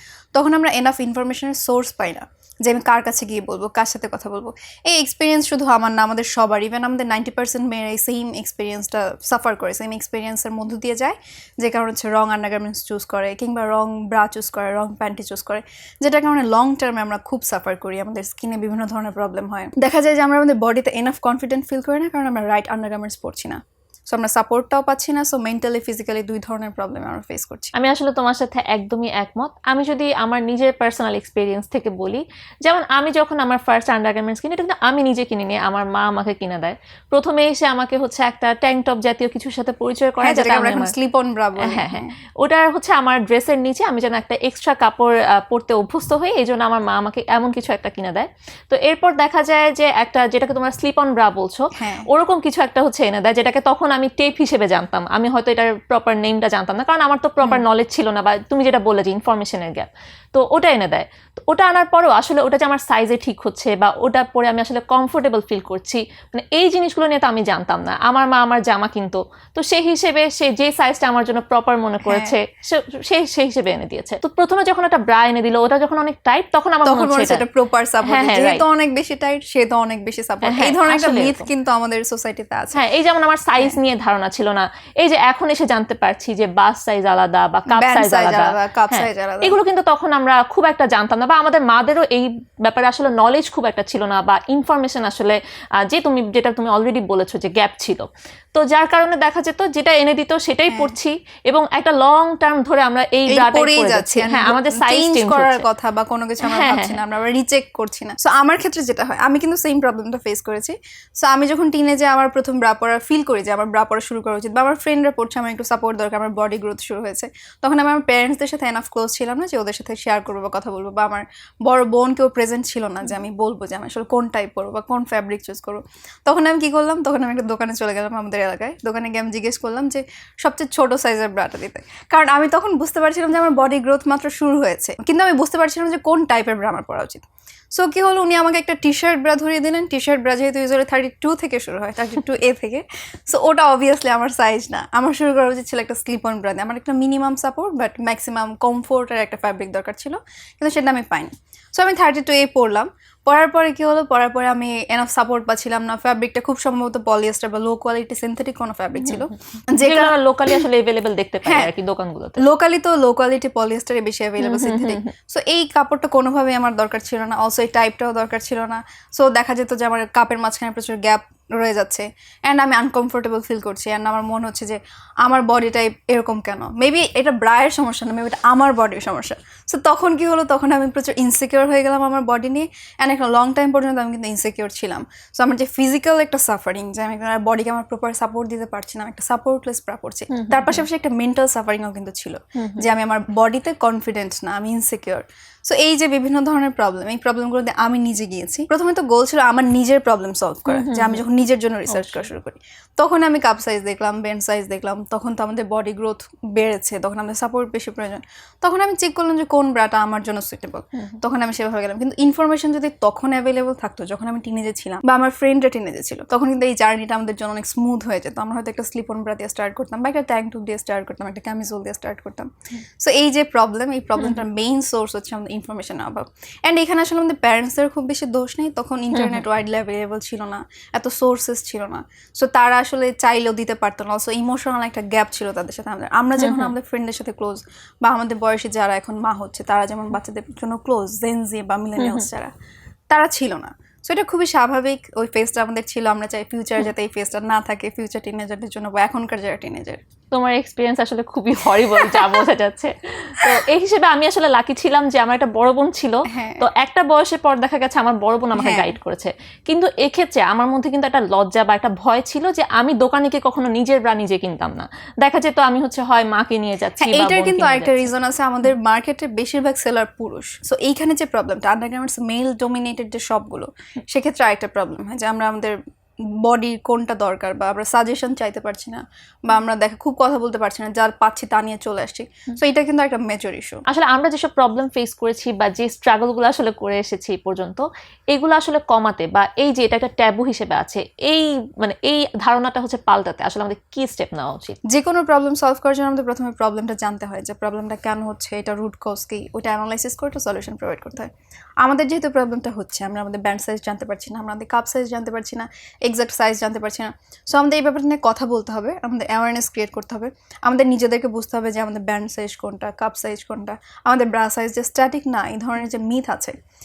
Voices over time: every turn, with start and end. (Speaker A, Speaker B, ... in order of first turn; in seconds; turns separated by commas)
Speaker A: 0.3-27.7, Speaker B: 27.7-40.9, Speaker A: 40.2-42.1, Speaker B: 41.6-77.4, Speaker A: 51.8-52.1, Speaker A: 72.0-72.3, Speaker A: 76.8-82.8, Speaker B: 78.0-78.6, Speaker B: 80.4-81.5, Speaker B: 82.7-105.6, Speaker A: 87.7-89.6, Speaker A: 100.7-100.9, Speaker A: 103.3-160.6, Speaker B: 106.4-107.0, Speaker B: 159.7-162.4, Speaker A: 161.4-161.7, Speaker A: 162.4-242.5, Speaker B: 164.4-165.1, Speaker B: 190.3-190.8, Speaker B: 192.6-192.8, Speaker B: 200.7-201.2, Speaker B: 201.9-202.3, Speaker B: 229.1-229.4, Speaker B: 236.4-236.7, Speaker B: 242.0-242.2, Speaker A: 243.1-250.0, Speaker B: 250.3-268.1, Speaker A: 252.0-252.4, Speaker A: 256.3-256.6, Speaker A: 258.6-258.9, Speaker A: 267.0-275.8, Speaker A: 276.4-283.8, Speaker B: 283.9-294.8, Speaker A: 294.9-301.3, Speaker A: 301.8-316.6